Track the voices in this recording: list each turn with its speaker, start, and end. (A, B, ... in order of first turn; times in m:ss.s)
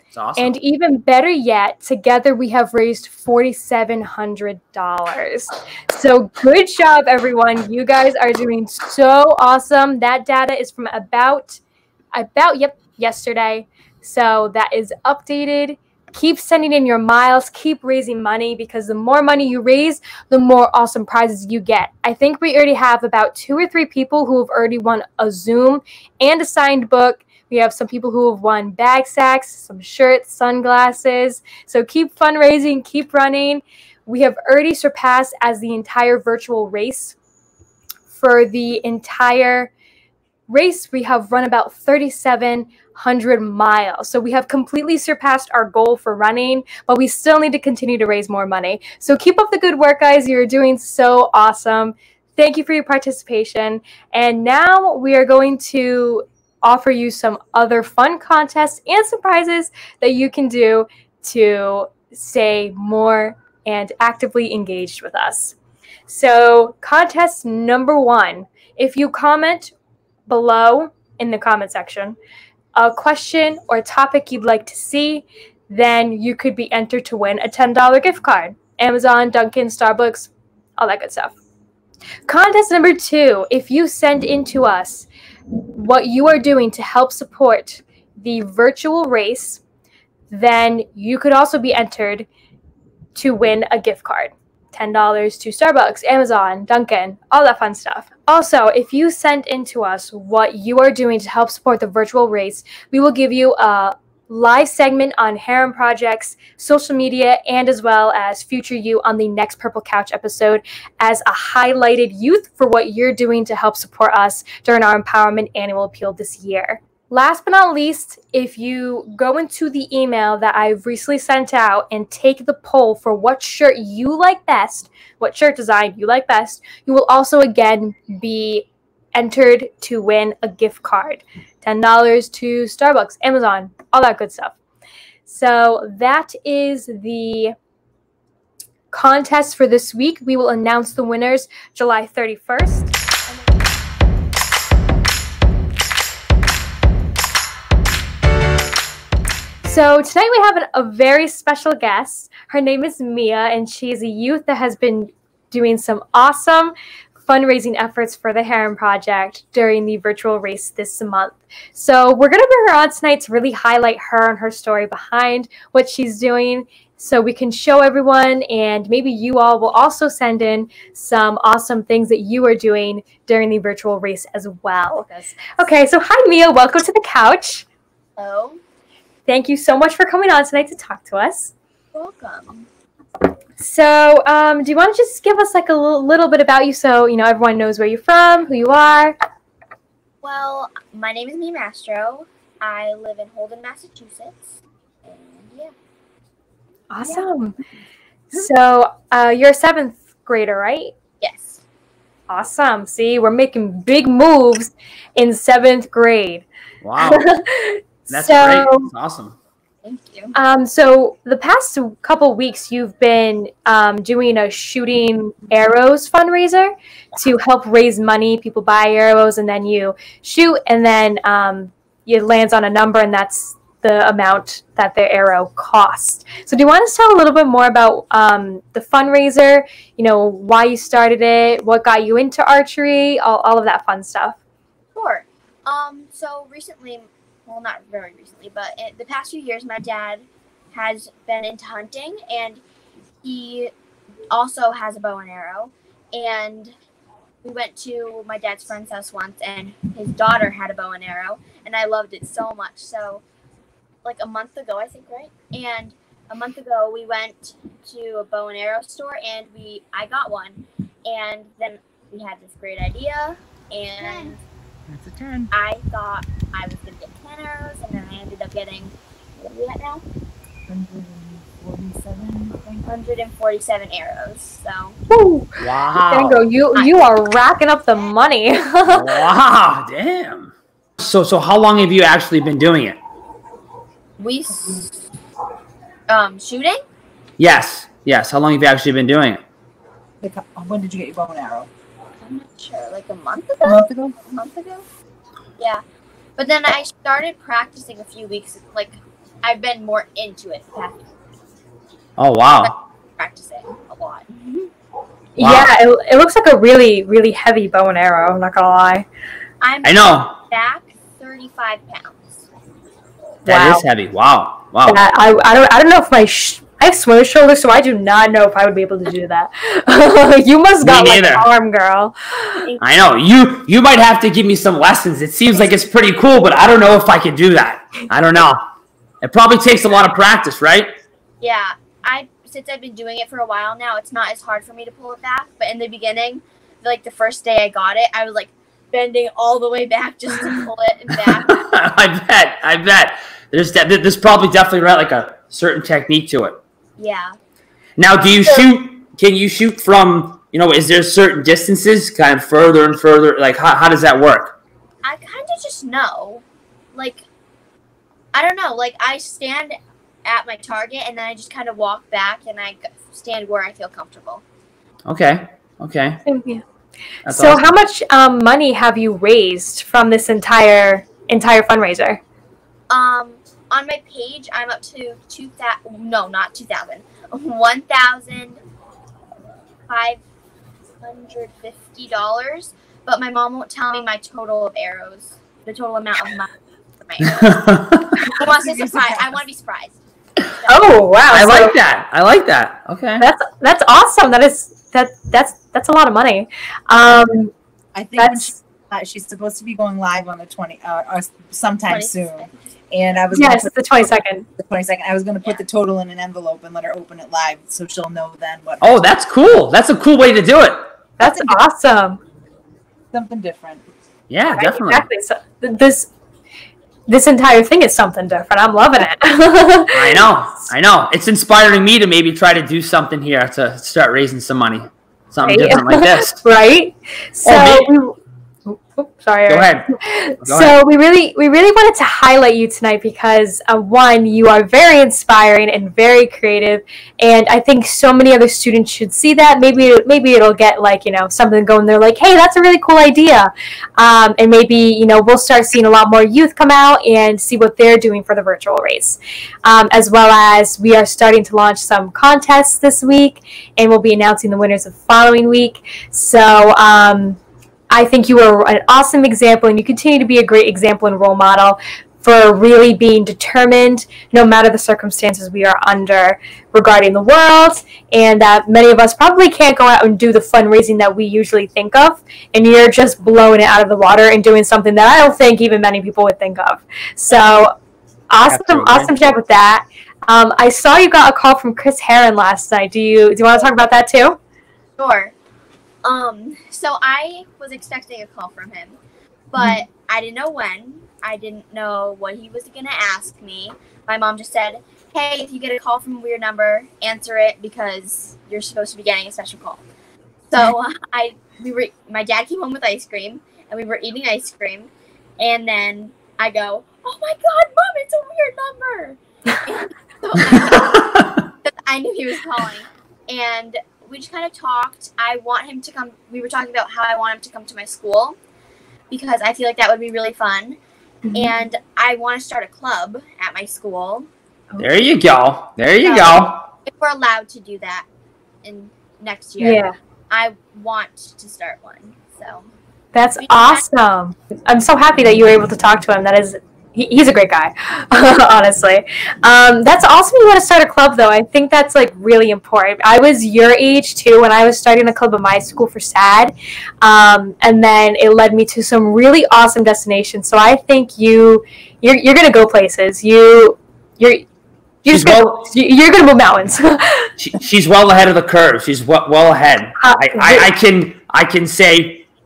0:00.1-0:00.6 A
0:00.4-0:11.6 B
0:12.1-0:37.2 B
0:38.1-0:39.7 B
0:40.5-1:05.6 B
1:06.1-1:09.7 B
1:10.3-1:12.2 B
1:12.7-1:21.4 B
1:22.3-1:29.6 B
1:30.3-1:32.3 B
1:33.1-2:14.6 B
2:15.2-2:17.5 B
2:18.9-2:22.9 B
2:29.6-2:36.7 B
2:37.2-2:57.6 B
2:55.1-2:55.6 C
2:58.2-2:58.6 C
2:59.2-3:01.5 B
3:01.9-3:02.7 C
3:03.6-3:09.1 B
3:10.2-3:14.5 C
3:15.0-3:15.7 C
3:16.9-3:17.5 B
3:18.3-3:20.9 B
3:21.2-3:21.6 C
3:22.3-3:26.4 B
3:26.8-3:27.2 A
3:27.0-3:28.9 B
3:28.1-3:29.4 A
3:29.8-3:30.3 C
3:30.3-3:54.4 B
3:54.9-4:02.6 C
4:03.2-4:03.7 C
4:04.3-4:06.7 C
4:07.4-4:13.2 C
4:14.0-4:24.4 C
4:24.0-4:24.3 D
4:24.9-4:25.5 D
4:25.5-4:30.0 C
4:30.7-4:32.8 D
4:32.8-4:35.0 C
4:35.1-4:35.6 B
4:35.6-4:36.4 A
4:36.1-4:39.2 B
4:38.8-4:43.0 A
4:44.2-4:45.0 C
4:46.1-4:46.8 C
4:47.4-4:49.4 A
4:50.2-4:51.7 D
4:52.2-4:54.8 C
4:53.6-4:54.2 D
4:56.4-5:01.1 C
5:02.2-5:02.8 A
5:02.6-5:04.7 C
5:05.4-5:09.0 B
5:05.4-5:05.7 A
5:09.6-5:12.4 C
5:09.8-5:10.4 A
5:13.4-5:13.8 B
5:13.4-5:15.0 A
5:14.8-5:22.7 B
5:20.8-5:21.4 A
5:22.8-5:28.6 A
5:29.2-5:30.9 A
5:31.4-5:41.6 C
5:41.2-5:46.6 A
5:47.0-5:47.4 C
5:48.0-5:54.6 A
5:55.0-5:57.2 C
5:58.3-6:04.4 C
6:05.1-6:06.2 A
6:06.2-6:06.6 B
6:07.2-6:07.6 A
6:07.3-6:12.2 B
6:12.9-6:18.6 C
6:19.9-6:20.2 C
6:21.0-6:27.5 C
6:27.3-6:28.1 A
6:28.4-6:29.4 D
6:28.4-6:30.0 C
6:30.6-6:30.9 C
6:30.7-6:31.7 B
6:31.3-6:33.2 A
6:33.2-6:37.5 B
6:37.9-6:43.8 D
6:38.2-6:38.6 B
6:41.9-6:42.5 C
6:43.3-6:44.5 B
6:44.6-6:49.1 D
6:48.8-6:50.8 A
6:51.2-6:52.2 B
6:51.2-6:51.6 D
6:53.1-6:53.8 D
6:54.3-6:55.1 A
6:54.5-6:56.1 B
6:57.1-7:00.2 B
6:59.9-7:06.4 A
7:05.4-7:37.4 B
7:07.4-7:07.9 A
7:09.5-7:09.9 A
7:10.4-7:10.8 A
7:37.9-7:57.7 B
7:58.3-8:04.4 B
7:58.4-7:59.2 A
8:05.0-8:05.3 C
8:06.0-8:09.0 C
8:09.5-8:19.8 C
8:20.5-8:38.4 C
8:39.1-8:40.8 C
8:41.2-8:41.5 B
8:41.3-8:44.3 C
8:44.8-8:46.6 A
8:46.0-8:48.0 C
8:48.6-8:52.6 C
8:49.6-8:49.9 B
8:53.1-9:14.4 B
8:53.4-8:53.8 C
9:15.0-9:17.3 B
9:15.1-9:15.6 A
9:17.4-9:22.2 A
9:20.0-9:20.7 B